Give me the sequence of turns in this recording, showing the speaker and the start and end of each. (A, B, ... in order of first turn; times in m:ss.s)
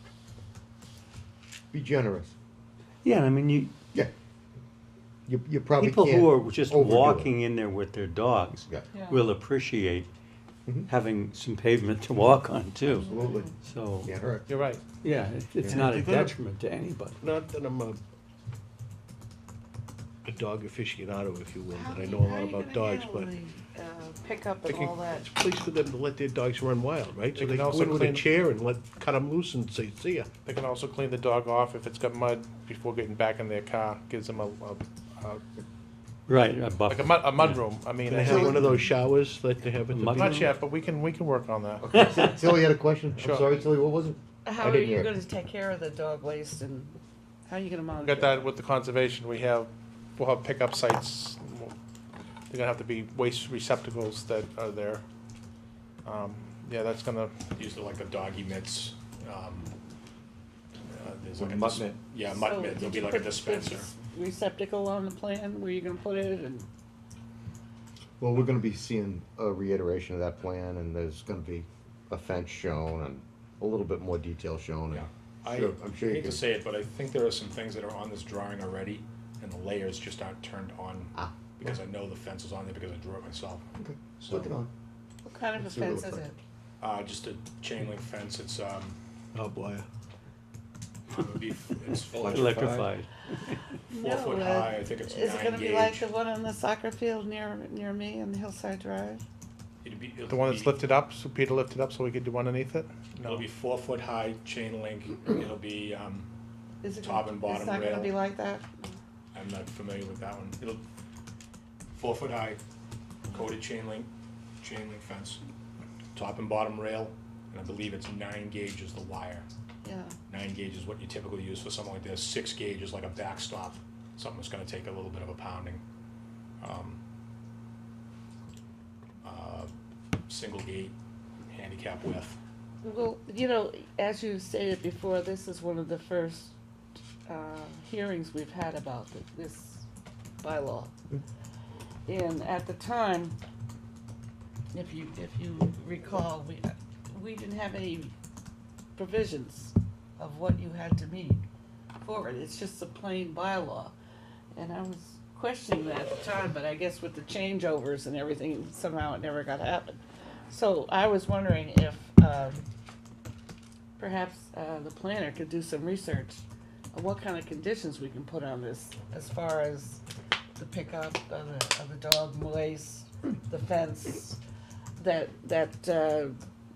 0:01.7-0:02.3 A
0:03.0-0:03.7 B
0:05.3-0:07.3 A
0:05.8-0:10.1 B
0:08.9-0:09.2 C
0:10.9-0:13.1 B
0:12.9-0:13.5 C
0:13.1-0:13.5 A
0:13.6-0:14.1 B
0:14.0-0:14.4 A
0:14.5-0:15.0 D
0:15.0-0:17.2 B
0:15.7-0:16.3 E
0:17.2-0:18.0 E
0:20.2-0:23.3 E
0:21.7-0:25.2 C
0:24.6-0:30.3 E
0:27.4-0:28.3 D
0:30.4-0:35.4 D
0:36.3-0:37.4 B
0:36.8-0:38.6 D
0:38.0-0:40.5 E
0:38.2-0:38.8 A
0:39.9-0:40.5 B
0:40.1-0:42.0 D
0:41.8-0:45.1 A
0:43.2-0:43.5 D
0:44.4-0:48.4 C
0:48.0-0:51.7 D
0:52.5-0:55.0 D
0:56.0-0:57.3 D
0:57.6-0:59.7 F
1:00.9-1:03.9 F
1:01.4-1:02.0 A
1:02.3-1:06.7 C
1:08.2-1:16.4 A
1:14.9-1:23.6 F
1:23.8-1:24.7 A
1:24.2-1:24.5 F
1:25.2-1:26.4 C
1:25.6-1:26.3 A
1:26.8-1:29.0 F
1:29.3-1:29.9 E
1:31.1-1:32.6 F
1:32.1-1:32.9 A
1:32.3-1:33.1 B
1:33.9-1:36.1 F
1:33.9-1:39.2 C
1:39.8-1:40.7 F
1:40.3-1:43.4 D
1:43.2-1:46.3 F
1:46.8-1:49.0 C
1:47.0-1:48.2 F
1:49.3-1:50.8 F
1:51.9-1:52.6 F
1:53.3-1:54.1 F
1:54.6-1:55.4 F
1:56.1-1:59.4 F
1:59.8-2:00.2 C
2:00.3-2:05.8 F
2:06.6-2:07.0 F
2:09.2-2:09.7 F
2:10.3-2:10.9 F
2:11.5-2:12.4 F
2:12.8-2:16.6 C
2:17.3-2:19.8 C
2:20.4-2:20.9 C
2:22.0-2:23.4 C
2:24.7-2:28.1 C
2:28.9-2:31.4 C
2:32.0-2:33.9 C
2:34.5-2:42.7 C
2:44.0-2:50.0 C
2:50.6-2:54.4 C
2:55.0-2:56.4 C